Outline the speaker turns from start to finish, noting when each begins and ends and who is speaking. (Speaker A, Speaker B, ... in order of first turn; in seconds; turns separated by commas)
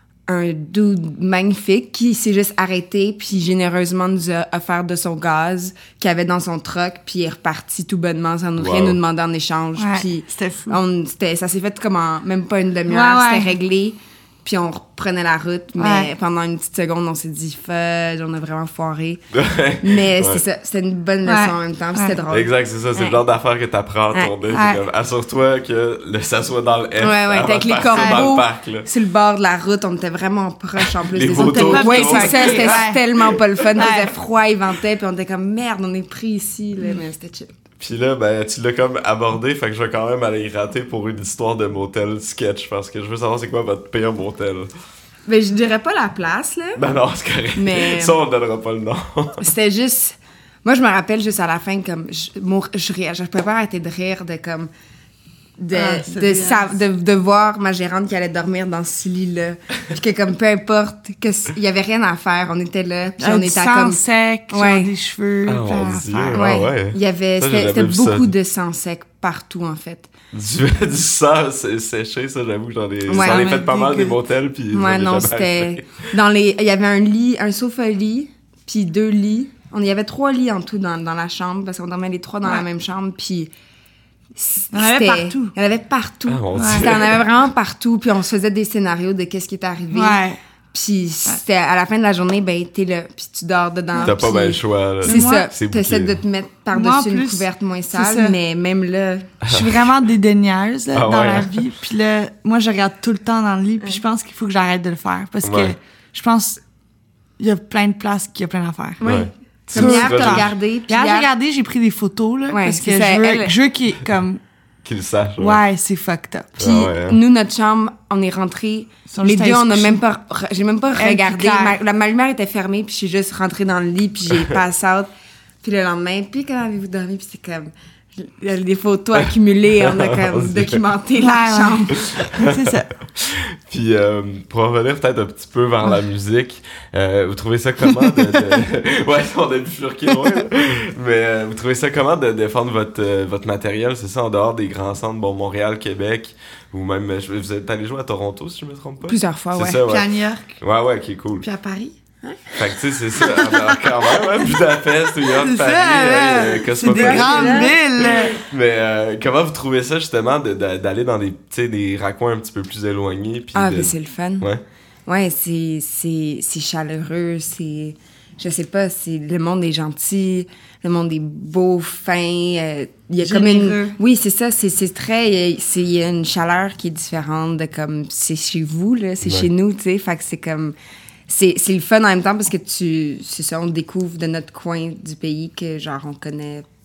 Speaker A: 0.3-19.2, Speaker B: 8.6-9.0, Speaker C: 9.8-10.8, Speaker C: 12.9-13.5, Speaker C: 15.8-16.1, Speaker B: 19.3-20.4, Speaker A: 19.8-23.2, Speaker C: 21.2-22.2, Speaker B: 22.3-28.9, Speaker C: 24.5-24.8, Speaker A: 27.0-37.5, Speaker C: 27.8-28.2, Speaker B: 31.1-32.9, Speaker C: 31.3-33.1, Speaker C: 33.8-34.1, Speaker B: 37.8-44.7, Speaker A: 45.2-46.8, Speaker B: 46.8-49.4, Speaker A: 47.5-48.2, Speaker A: 49.4-54.7, Speaker A: 55.6-64.9, Speaker C: 55.7-56.8, Speaker C: 63.2-66.5, Speaker B: 65.5-68.3, Speaker A: 66.3-70.1, Speaker B: 70.3-76.0, Speaker A: 73.1-74.1, Speaker C: 73.2-74.0, Speaker A: 74.7-83.5, Speaker A: 84.3-90.2, Speaker C: 84.7-85.5, Speaker B: 86.3-87.2, Speaker C: 86.5-86.8, Speaker C: 89.9-90.4, Speaker A: 90.7-99.3, Speaker C: 93.9-94.2, Speaker B: 94.0-96.2, Speaker C: 95.0-95.5, Speaker C: 96.7-98.3, Speaker B: 99.5-99.8, Speaker C: 99.5-106.6, Speaker B: 100.9-101.7, Speaker B: 105.4-105.7, Speaker C: 107.4-109.0, Speaker A: 109.0-111.3, Speaker B: 109.0-110.5, Speaker C: 109.7-114.4, Speaker A: 112.5-113.5, Speaker B: 114.8-115.6, Speaker C: 115.4-116.7, Speaker B: 116.6-117.2, Speaker A: 116.6-125.1, Speaker C: 119.1-120.0, Speaker C: 121.0-121.8, Speaker A: 125.6-132.0, Speaker B: 129.8-130.8, Speaker C: 131.2-132.9, Speaker B: 133.2-150.1, Speaker A: 149.1-149.8, Speaker C: 149.8-150.6, Speaker B: 150.6-151.4, Speaker C: 151.4-151.9, Speaker B: 152.6-164.6, Speaker C: 153.2-153.8, Speaker C: 155.4-158.3, Speaker A: 156.3-157.8, Speaker A: 163.5-164.4, Speaker A: 165.1-180.7, Speaker C: 173.2-174.0, Speaker A: 181.3-186.6